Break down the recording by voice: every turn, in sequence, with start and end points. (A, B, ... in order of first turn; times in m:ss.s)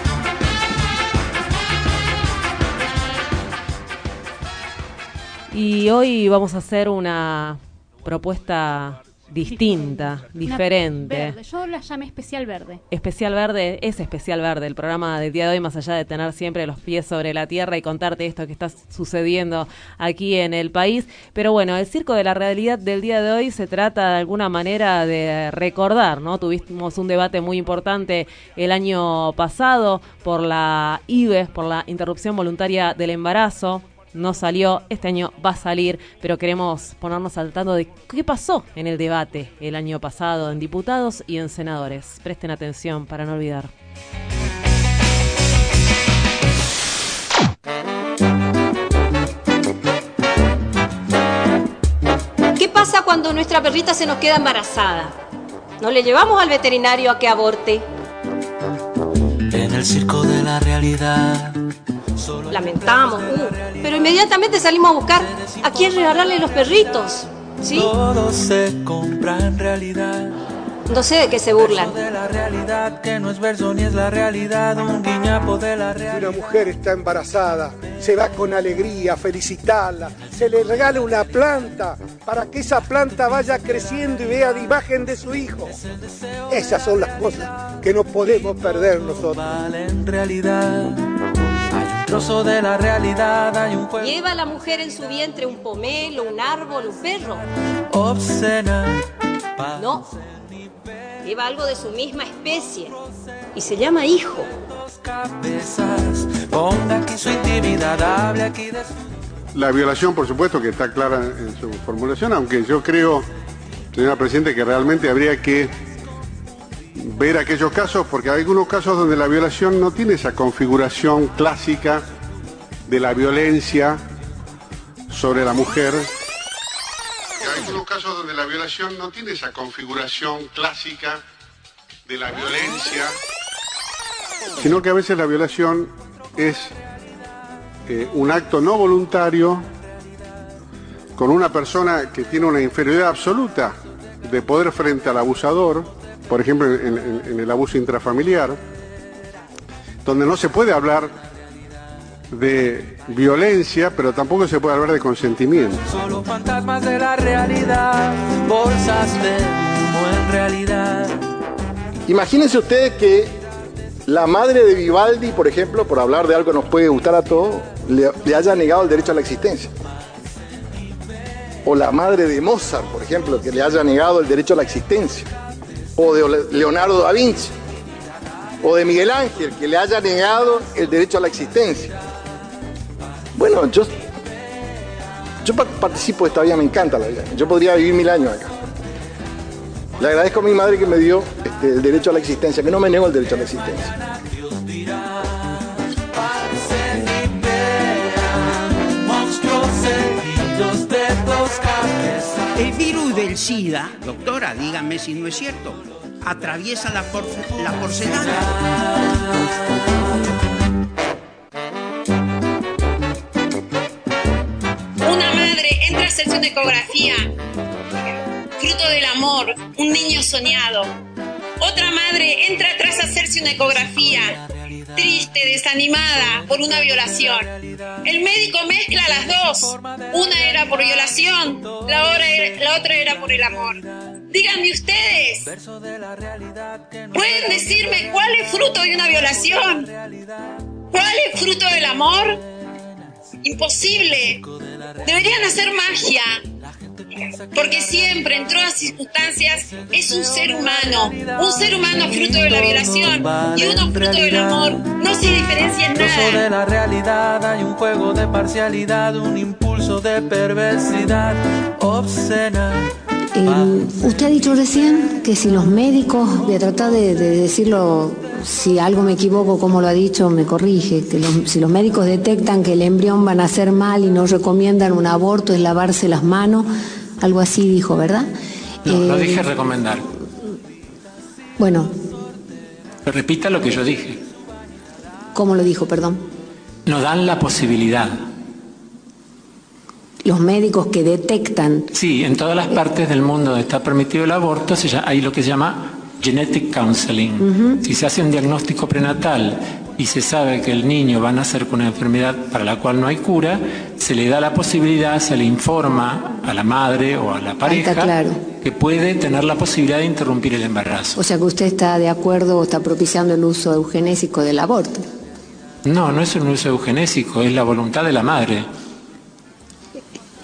0:05.5-0:11.4 A
0:09.5-0:12.8 B
0:12.9-0:43.7 A
0:52.6-0:55.1 C
0:55.8-0:57.8 C
0:59.5-1:01.6 D
1:02.1-1:04.1 D
1:02.5-1:07.9 C
1:05.3-1:06.1 D
1:07.7-1:10.4 D
1:10.9-1:11.9 C
1:11.5-1:16.3 D
1:16.1-1:25.8 E
1:26.5-1:29.4 E
1:29.3-1:31.0 D
1:31.8-1:34.2 D
1:34.0-1:37.4 C
1:37.9-1:39.0 D
1:39.6-1:40.7 D
1:39.8-1:40.0 C
1:41.2-1:42.9 C
1:43.5-1:44.5 C
1:44.9-1:49.1 D
1:49.5-1:53.2 F
1:53.9-1:55.7 F
1:57.0-2:02.0 F
2:02.9-2:04.0 F
2:05.1-2:06.1 F
2:07.4-2:11.2 F
2:12.0-2:13.1 F
2:14.6-2:16.7 F
2:17.9-2:19.6 F
2:21.2-2:28.6 F
2:30.0-2:31.1 F
2:32.3-2:35.8 F
2:35.9-2:41.2 D
2:42.1-2:43.3 G
2:44.1-2:49.7 G
2:51.6-2:55.3 G
2:56.0-2:57.5 G
2:58.6-3:02.0 G
3:03.4-3:03.9 G
3:05.4-3:08.5 G
3:10.0-3:13.9 G
3:14.5-3:15.5 D
3:16.2-3:22.5 D
3:22.5-3:28.6 H
3:35.0-3:37.2 I
3:38.6-3:40.9 I
3:41.6-3:44.4 I
3:43.8-3:44.2 D
3:45.0-3:47.5 I
3:46.5-3:47.2 D
3:48.0-3:53.8 I
3:49.7-3:50.8 D
3:51.6-3:52.2 D
3:54.3-3:55.5 I
3:55.5-3:58.0 D
3:57.1-3:59.9 I
3:59.0-4:00.6 D
4:00.9-4:02.4 I
4:03.4-4:04.4 I
4:04.6-4:04.9 D
4:05.0-4:06.4 I
4:06.8-4:08.1 D
4:07.5-4:16.4 I
4:09.6-4:22.9 D
4:23.4-4:36.7 J
4:23.4-4:24.4 D
4:37.2-4:38.3 J
4:38.8-4:39.5 J
4:38.8-4:40.0 K
4:41.6-4:41.9 J
4:43.0-4:44.2 K
4:45.3-4:46.2 J
4:46.8-4:48.3 K
4:50.2-4:51.8 J
4:51.9-5:11.2 K
4:57.4-4:57.8 J
5:07.6-5:08.4 J
5:11.2-5:15.0 J
5:15.8-5:18.7 K